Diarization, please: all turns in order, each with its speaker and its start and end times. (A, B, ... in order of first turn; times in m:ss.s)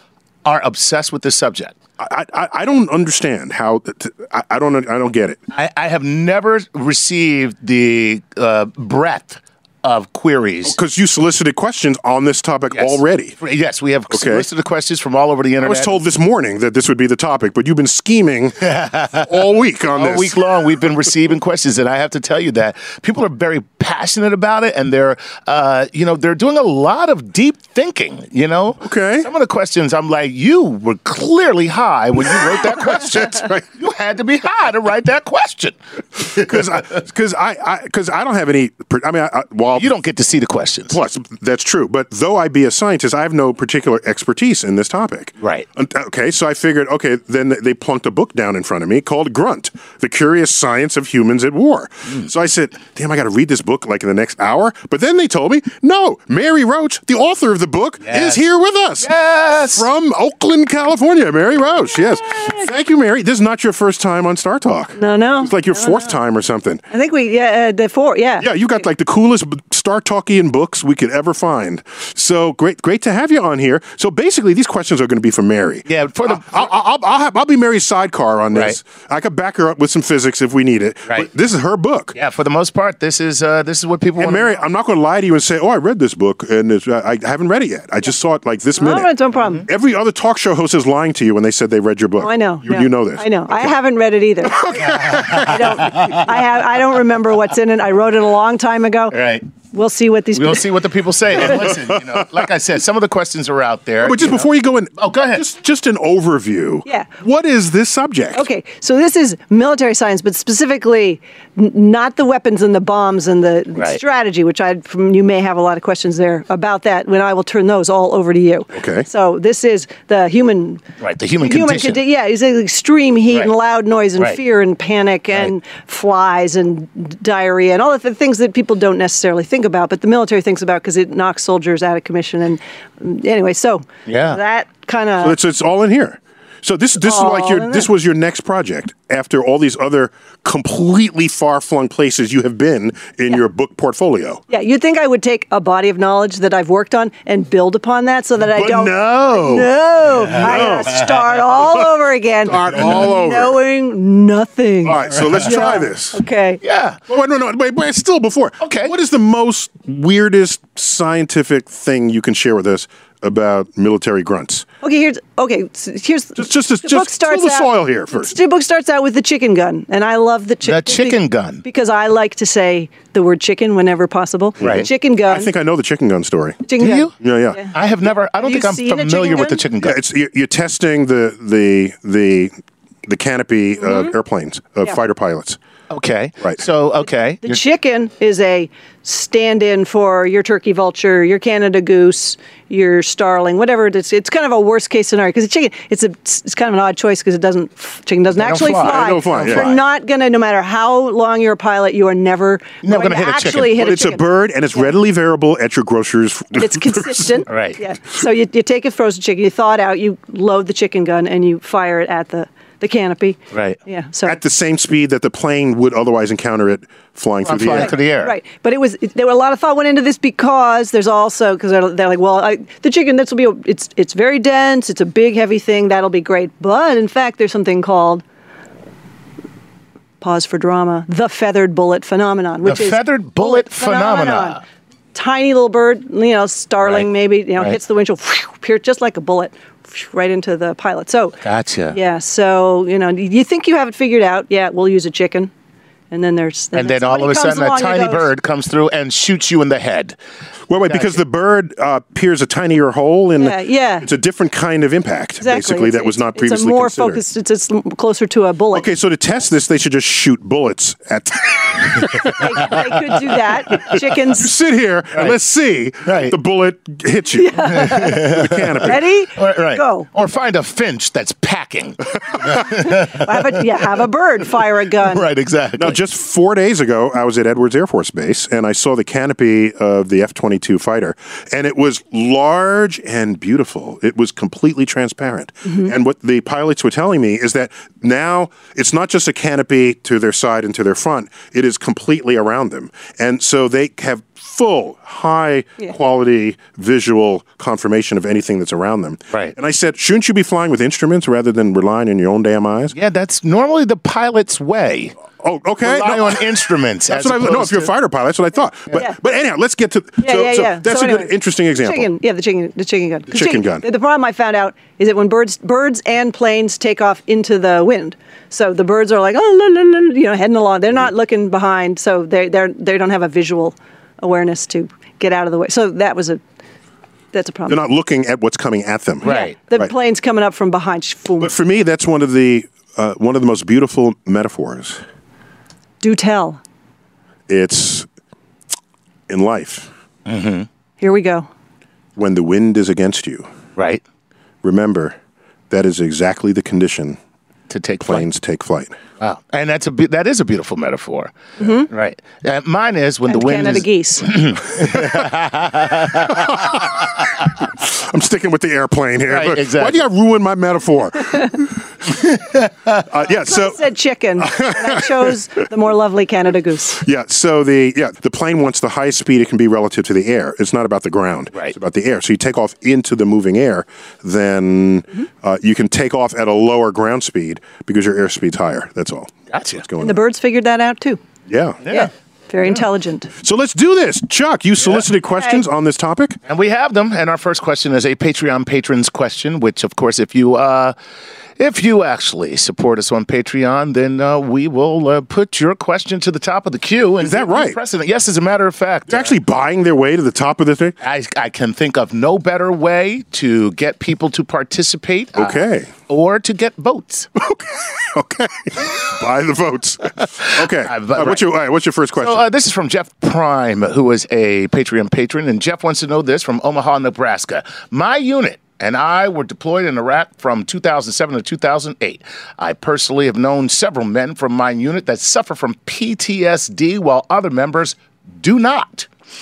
0:00.4-0:01.8 A
0:02.0-0:05.4 B
0:05.5-0:10.8 A
0:10.6-0:13.4 B
0:12.7-0:16.0 A
0:14.1-0:14.5 B
0:15.6-0:20.4 B
0:18.6-0:36.8 A
0:28.8-0:29.3 B
0:32.3-0:33.6 B
0:36.3-0:39.9 B
0:39.7-0:41.0 A
0:40.9-0:59.1 B
0:45.4-0:45.7 A
0:58.0-0:58.4 A
0:59.0-0:59.9 A
0:59.7-1:06.8 B
1:05.0-1:06.1 C
1:06.9-1:08.5 C
1:08.4-1:22.2 B
1:15.9-1:16.7 A
1:18.5-1:18.8 A
1:22.1-1:24.6 A
1:24.2-1:29.1 B
1:28.8-1:29.6 C
1:29.7-1:33.6 B
1:32.2-1:34.6 C
1:34.4-1:36.0 B
1:34.7-1:36.4 A
1:35.4-1:39.2 C
1:39.1-1:39.5 A
1:39.7-1:40.7 C
1:40.3-1:45.4 A
1:41.5-1:42.2 B
1:44.0-1:48.5 B
1:48.3-2:00.8 C
1:53.8-1:54.0 A
1:58.7-1:59.1 B
2:01.0-2:02.0 A
2:01.4-2:15.4 C
2:14.1-2:14.4 A
2:15.2-2:24.4 B
2:17.0-2:17.9 C
2:24.5-2:36.6 C
2:28.5-2:29.7 B
2:30.2-2:31.1 A
2:30.3-2:33.6 B
2:32.8-2:33.0 A
2:34.8-2:36.2 B
2:35.0-2:35.8 A
2:36.6-2:37.0 A
2:37.1-2:44.7 B
2:38.6-2:38.9 A
2:44.8-2:55.5 C
2:46.4-2:48.4 B
2:50.6-2:51.6 A
2:54.6-2:54.9 A
2:54.6-2:57.6 B
2:56.7-2:57.7 C
2:56.8-2:57.2 A
2:57.7-3:00.0 A
2:58.4-2:59.6 C
2:59.8-3:02.5 B
3:03.1-3:05.6 B
3:03.8-3:04.1 C
3:05.9-3:07.6 A
3:07.4-3:24.9 C
3:18.3-3:19.8 A
3:18.8-3:19.8 B
3:22.8-3:23.8 A
3:23.6-3:27.4 B
3:26.6-3:34.4 C
3:27.5-3:27.8 A
3:33.5-3:33.8 A
3:34.2-3:38.0 B
3:37.4-3:38.4 A
3:37.8-3:48.2 C
3:50.2-3:54.6 C
3:52.6-3:54.6 A
3:55.2-4:05.5 C
3:56.8-3:57.8 A
4:01.4-4:02.0 A
4:06.1-4:08.3 C
4:06.7-4:10.2 A
4:10.7-4:17.2 B
4:10.9-4:11.2 A
4:13.4-4:14.1 C
4:15.4-4:18.9 C
4:18.7-4:22.8 B
4:22.4-4:24.5 C
4:23.7-4:29.0 B
4:26.0-4:26.4 A
4:27.4-4:28.2 C
4:27.7-4:33.8 A
4:28.8-4:30.1 C
4:32.6-4:35.3 C
4:34.9-4:36.0 A
4:35.8-5:03.0 B
4:45.7-4:45.9 C
5:02.9-5:05.2 A
5:05.4-5:06.5 B
5:05.8-5:07.9 A
5:07.1-5:12.1 B
5:10.2-5:26.4 C
5:13.3-5:13.8 B
5:27.3-5:27.8 C
5:27.7-5:29.9 B
5:29.2-5:29.6 A
5:29.2-5:31.5 C
5:31.4-5:35.0 B
5:36.0-5:36.6 C
5:37.5-5:38.1 B
5:39.3-5:39.9 B
5:40.3-5:40.7 A
5:41.0-5:41.5 C
5:42.2-5:43.5 B
5:43.8-5:44.0 A
5:44.6-5:45.2 B
5:45.7-5:47.2 B
5:47.7-5:48.3 A
5:48.0-5:49.0 B
5:49.2-5:51.4 A
5:51.6-5:51.9 C
5:51.9-5:57.0 A
5:53.3-5:54.5 C
5:54.8-5:55.3 B
5:56.2-6:01.8 B
5:59.3-6:00.1 A
6:02.1-6:03.1 A
6:03.0-6:03.8 B
6:03.3-6:07.0 C
6:04.4-6:05.4 B
6:07.0-6:20.2 B
6:19.5-6:19.8 A
6:20.0-6:21.2 C
6:21.5-6:21.8 B
6:21.8-6:22.1 A
6:21.9-6:23.3 C
6:23.4-6:26.4 B
6:25.4-6:25.6 C
6:26.5-6:31.0 A
6:31.6-6:39.4 A
6:37.2-6:37.8 B
6:39.1-6:41.0 B
6:41.0-6:47.3 A
6:45.4-6:45.9 B
6:47.4-6:52.4 B
6:50.4-6:51.5 A
6:52.2-7:09.1 A